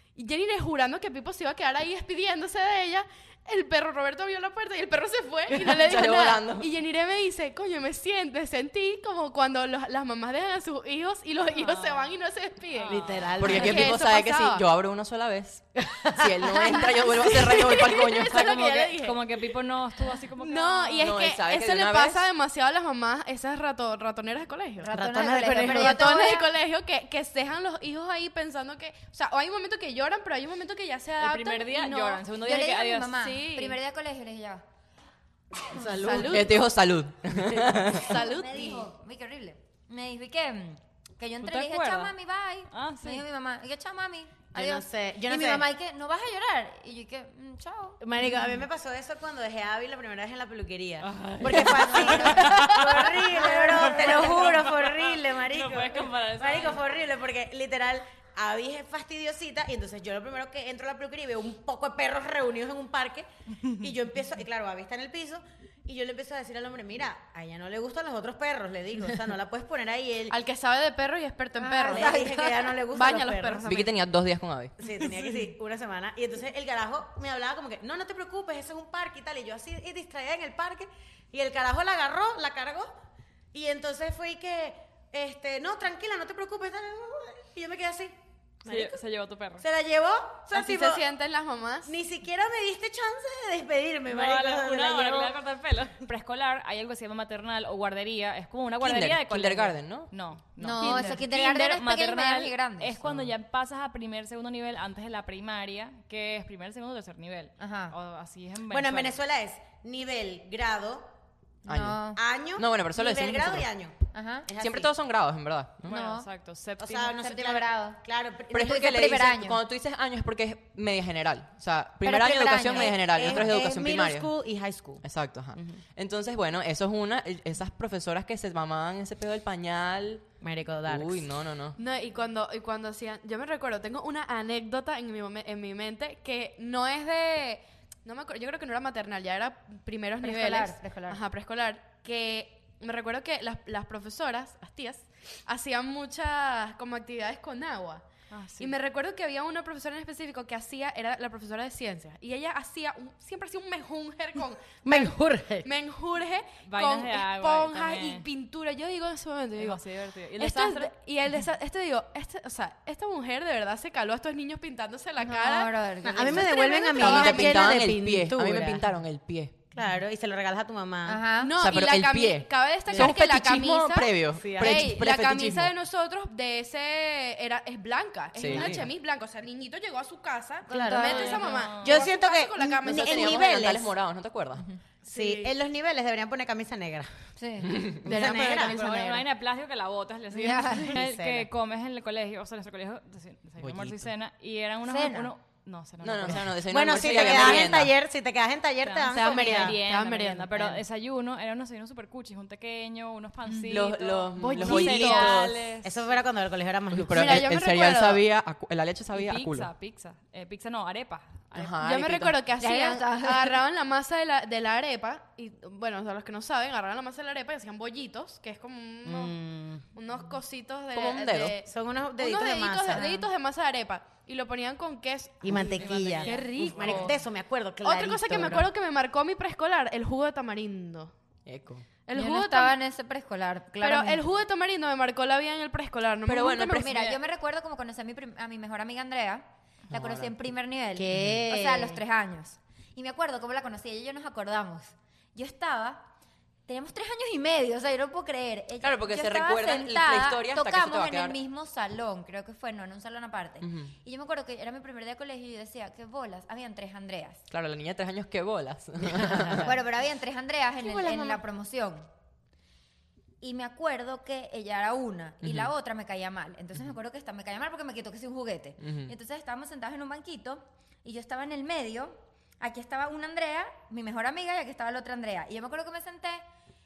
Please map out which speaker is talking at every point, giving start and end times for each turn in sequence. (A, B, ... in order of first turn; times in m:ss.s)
0:00.1-0:14.6 A
0:05.5-0:06.7 B
0:11.5-0:12.1 C
0:12.7-0:13.6 C
0:12.9-0:13.9 D
0:13.4-0:15.6 B
0:15.9-0:16.8 D
0:16.2-0:18.7 B
0:17.2-0:19.2 A
0:18.2-0:21.2 C
0:20.4-0:24.9 A
0:21.0-0:22.2 B
0:24.8-0:26.5 E
0:24.9-0:26.2 D
0:25.4-0:32.2 A
0:31.2-0:33.3 C
0:32.4-0:34.6 E
0:33.3-0:33.8 A
0:35.7-0:36.4 D
0:35.8-0:36.5 A
0:36.1-0:38.1 B
0:37.9-0:38.9 A
0:38.1-0:48.0 E
0:41.4-0:42.1 C
0:42.7-0:43.2 C
0:44.5-0:45.6 D
0:48.0-1:10.4 D
0:51.0-0:56.8 C
0:51.6-0:54.6 E
1:10.3-1:12.2 A
1:11.6-1:12.8 E
1:11.8-1:13.7 D
1:12.9-1:13.9 A
1:13.6-1:14.7 B
1:14.8-1:22.9 D
1:23.5-1:29.0 D
1:28.6-1:29.6 C
1:29.6-1:31.0 D
1:30.5-1:31.9 A
1:31.8-1:35.4 D
1:34.1-1:49.2 C
1:38.8-1:40.1 B
1:40.6-1:42.9 E
1:40.8-1:41.3 A
1:43.0-1:43.3 B
1:47.6-1:47.9 E
1:48.7-1:51.1 D
1:51.6-1:52.0 B
1:51.6-1:52.2 E
1:52.1-1:53.9 D
1:52.6-1:53.7 B
1:54.1-1:54.5 E
1:54.5-1:54.9 D
1:54.6-1:55.9 B
1:55.8-1:57.2 C
1:55.9-1:56.3 E
1:56.8-1:59.2 D
1:57.1-1:59.6 E
1:58.5-2:04.3 B
2:02.0-2:03.0 E
2:02.7-2:05.8 D
2:05.0-2:10.2 B
2:10.4-2:11.2 D
2:10.9-2:11.8 B
2:11.8-2:28.0 A
2:20.2-2:21.2 E
2:28.3-2:28.7 C
2:28.6-2:39.8 A
2:34.8-2:35.7 D
2:36.6-2:38.2 C
2:39.6-2:40.9 C
2:40.4-2:45.7 A
2:45.2-2:46.5 E
2:46.0-2:48.9 D
2:46.3-2:47.8 A
2:47.0-2:49.5 B
2:49.7-2:51.3 D
2:51.0-2:51.5 E
2:51.4-3:03.7 A
2:51.6-2:55.7 B
2:54.3-2:54.9 D
2:58.3-2:58.9 B
2:58.5-2:58.8 D
3:00.7-3:01.6 E
3:00.7-3:03.9 D
3:01.0-3:02.0 C
3:02.8-3:04.7 B
3:05.0-3:05.5 A
3:05.1-3:07.1 D
3:07.4-3:07.8 E
3:07.6-3:08.1 B
3:08.0-3:09.2 A
3:08.0-3:08.8 D
3:08.2-3:17.7 C
3:10.3-3:11.0 E
3:10.9-3:11.5 D
3:13.6-3:14.1 B
3:14.8-3:15.3 E
3:16.0-3:17.9 B
3:16.3-3:19.8 D
3:18.8-3:26.0 C
3:19.1-3:20.5 A
3:23.5-3:23.8 A
3:23.7-3:25.6 B
3:24.4-3:25.4 A
3:24.8-3:27.5 D
3:26.9-3:29.7 B
3:27.1-3:28.2 A
3:29.1-3:31.7 C
3:31.5-3:32.4 B
3:31.8-3:39.4 A
3:32.6-3:33.6 E
3:39.0-3:39.8 D
3:39.9-3:47.1 A
3:40.9-3:41.6 B
3:41.6-3:43.0 D
3:42.9-3:43.3 E
3:45.4-3:48.7 D
3:45.5-3:47.2 C
3:47.8-3:51.1 A
3:51.4-3:51.8 B
3:52.0-3:52.7 A
3:52.1-3:54.3 E
3:53.8-3:57.0 A
3:56.2-3:57.0 B
3:56.7-4:06.0 E
3:59.9-4:00.3 B
4:01.0-4:02.0 D
4:01.2-4:01.4 B
4:06.7-4:17.4 E
4:08.8-4:11.4 B
4:13.6-4:13.9 B
4:17.5-4:19.7 B
4:19.6-4:22.1 E
4:20.8-4:21.4 D
4:23.4-4:36.4 E
4:25.4-4:25.7 B
4:28.8-4:29.1 B